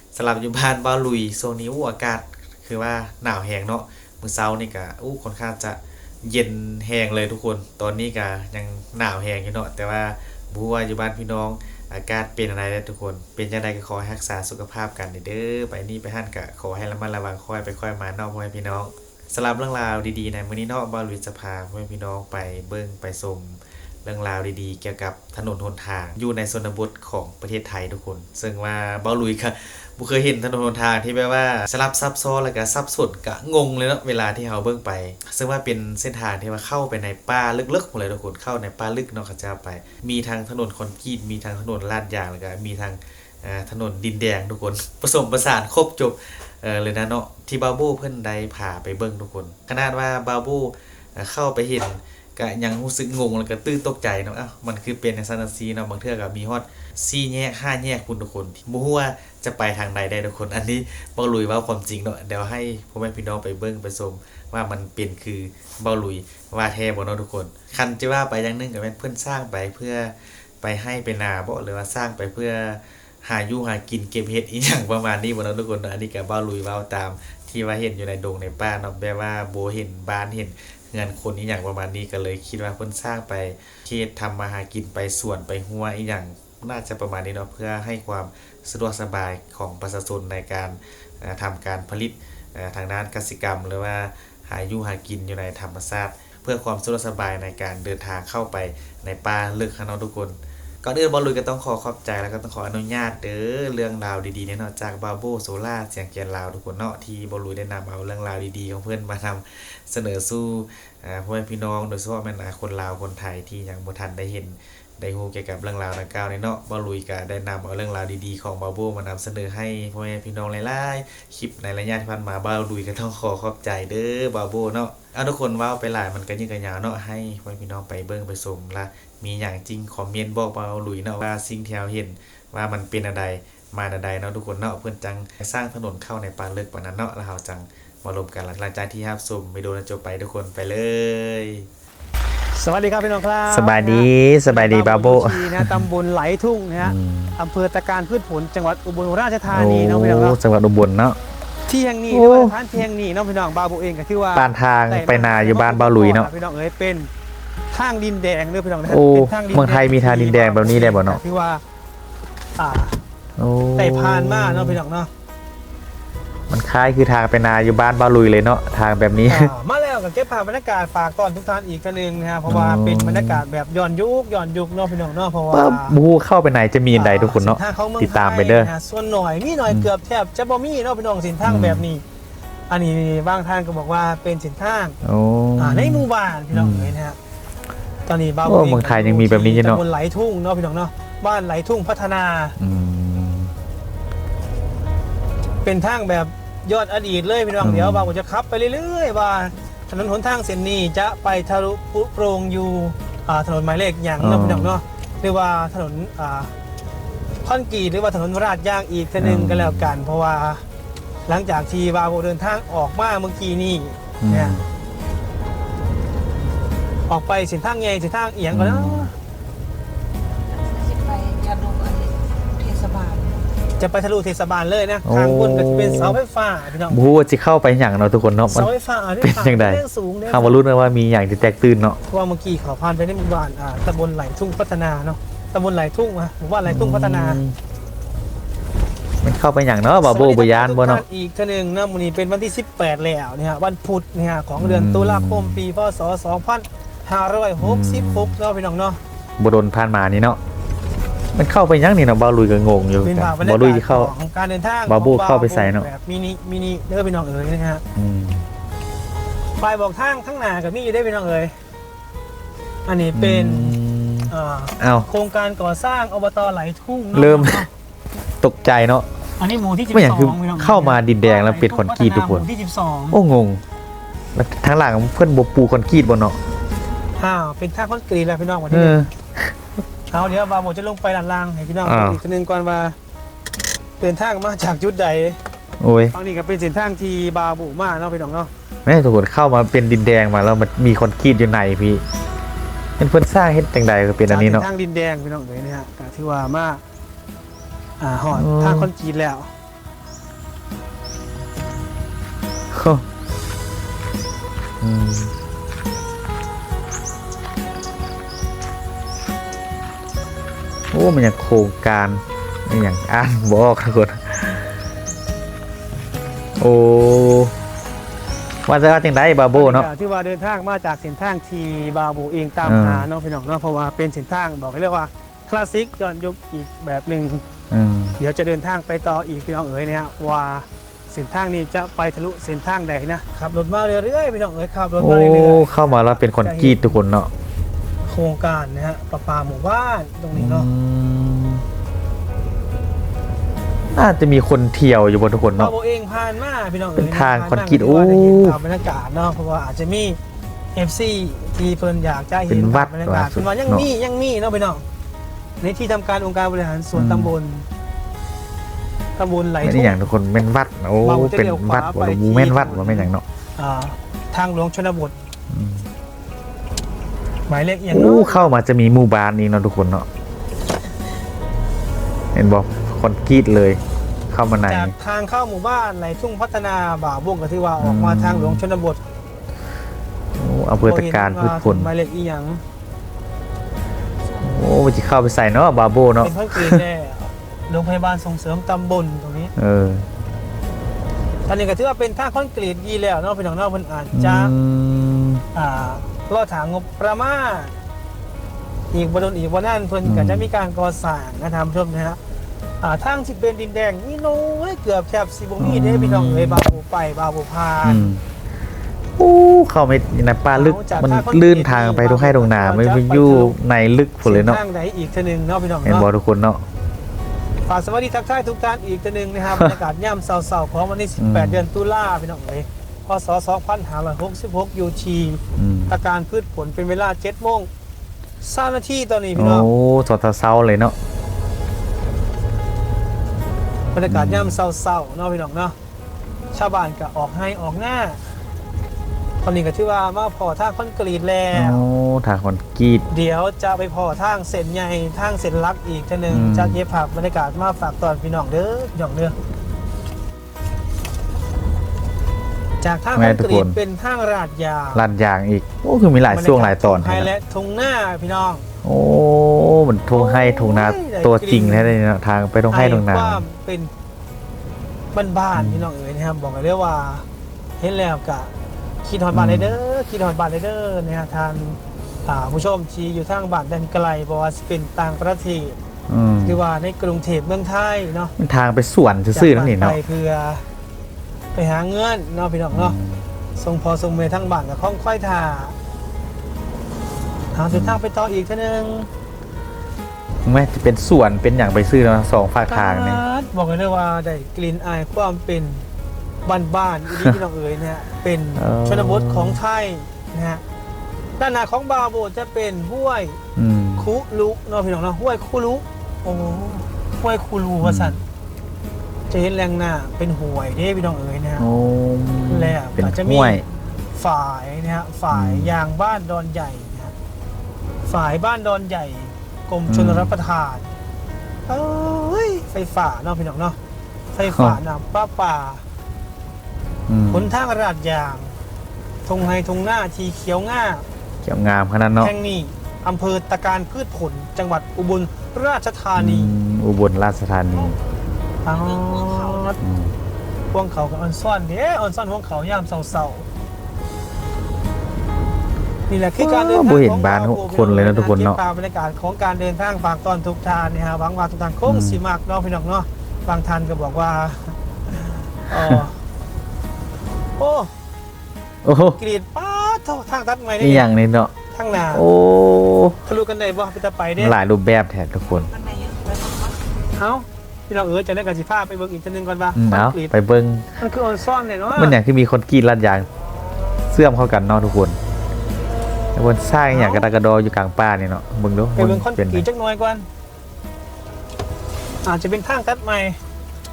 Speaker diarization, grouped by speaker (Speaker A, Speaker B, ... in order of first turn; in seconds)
Speaker A: 0.1-141.7, 143.5-145.7, 146.8-147.4, 149.5-151.2, 152.1-152.8, 154.3-156.3, 158.9-161.2, 163.4-164.8, 166.5-169.5, 172.5-173.4, 175.5-178.7, 181.4-181.9, 185.0-186.9, 188.4-189.8, 192.6-193.5, 197.6-198.1, 204.2-204.8, 209.2-209.9, 214.2-214.7, 218.5-219.1, 225.1-226.2, 226.9-228.7, 229.2-232.0, 236.7-237.6, 239.2-241.0, 244.6-245.6, 247.6-248.4, 249.4-250.4, 251.3-254.1, 254.9-255.9, 258.0-258.5, 263.1-265.1, 267.1-267.7, 268.4-269.1, 269.9-272.4, 273.1-273.6, 274.4-276.4, 278.7-279.6, 281.9-282.2, 285.8-286.1, 288.9-292.0, 293.0-294.7, 298.3-298.9, 302.7-303.1, 304.8-305.3, 310.9-314.7, 316.6-317.5, 318.7-319.9, 322.6-323.1, 327.7-328.2, 335.0-337.3, 340.3-341.6, 343.9-345.7, 347.0-348.6, 352.5-353.9, 356.9-357.3, 359.6-363.2, 365.5-365.9, 367.9-370.1, 372.3-374.9, 377.8-378.6, 380.4-381.9, 384.4-386.8, 389.6-390.1, 394.1-395.4, 400.1-400.5, 405.6-406.6, 407.8-408.2, 409.2-414.6, 415.9-416.6, 421.2-421.6, 425.6-426.0, 429.4-431.0, 434.1-434.6, 441.5-443.1, 446.3-446.8, 453.1-453.8, 454.9-457.3, 458.8-463.4, 465.6-465.9, 469.3-469.8, 476.1-476.6, 478.4-480.0, 482.7-483.2, 487.7-488.0, 490.5-493.2, 498.6-499.6, 503.6-504.1, 507.8-508.2, 511.6-513.6, 515.3-515.7, 519.9-520.3, 524.5-524.8, 527.1-527.5, 531.4-532.3, 536.2-538.0, 539.8-540.1, 546.4-548.6, 551.9-552.2, 558.9-559.2, 560.8-563.2, 564.4-565.7, 569.8-570.9, 571.9-573.3, 574.1-575.2, 576.4-579.6
Speaker B: 142.5-150.4, 151.7-157.1, 157.7-161.6, 162.6-163.0, 163.8-165.1, 169.3-176.0, 176.9-182.0, 182.7-185.0, 185.6-187.2, 188.1-192.6, 195.6-206.5, 207.4-210.6, 211.3-214.6, 217.1-219.1, 223.8-227.0, 228.5-230.6, 232.1-237.4, 239.9-249.0, 253.0-257.8, 259.6-261.5, 262.9-263.8, 264.3-267.7, 269.4-273.2, 277.2-279.1, 280.1-283.0, 284.0-285.4, 286.1-288.5, 294.3-296.8, 298.0-299.5, 319.5-327.4, 328.2-337.0, 338.1-340.7, 345.6-350.2, 350.7-354.8, 355.6-357.7, 359.2-360.1, 361.0-365.1, 367.5-368.5, 374.7-379.0, 380.8-382.6, 386.2-389.5, 391.5-394.5, 395.6-397.8, 398.9-402.2, 402.8-408.1, 410.5-413.6, 414.2-416.1, 417.7-427.7, 428.4-429.7, 433.9-435.8, 436.5-438.2, 439.4-441.8, 443.1-449.4, 452.8-455.0, 456.3-458.6, 460.1-461.9, 462.7-463.9, 465.1-467.2, 467.8-468.5, 469.0-475.8, 476.4-478.3, 479.3-480.6, 481.5-483.0, 483.6-485.8, 487.5-489.1, 492.7-495.9, 496.5-500.6, 501.4-503.4, 504.0-508.2, 509.3-511.7, 512.5-513.6, 514.1-517.1, 518.1-520.9, 521.7-523.8, 524.3-525.8, 527.3-528.6, 529.3-531.0, 532.2-536.5, 538.6-539.8, 540.7-543.5, 546.1-556.2, 557.6-557.9, 559.2-561.1, 561.7-562.2, 563.3-564.5, 567.2-570.3, 571.0-572.2, 576.9-577.3, 579.0-580.3, 582.2-583.4
Speaker C: 220.6-223.4, 538.7-539.7, 565.7-566.9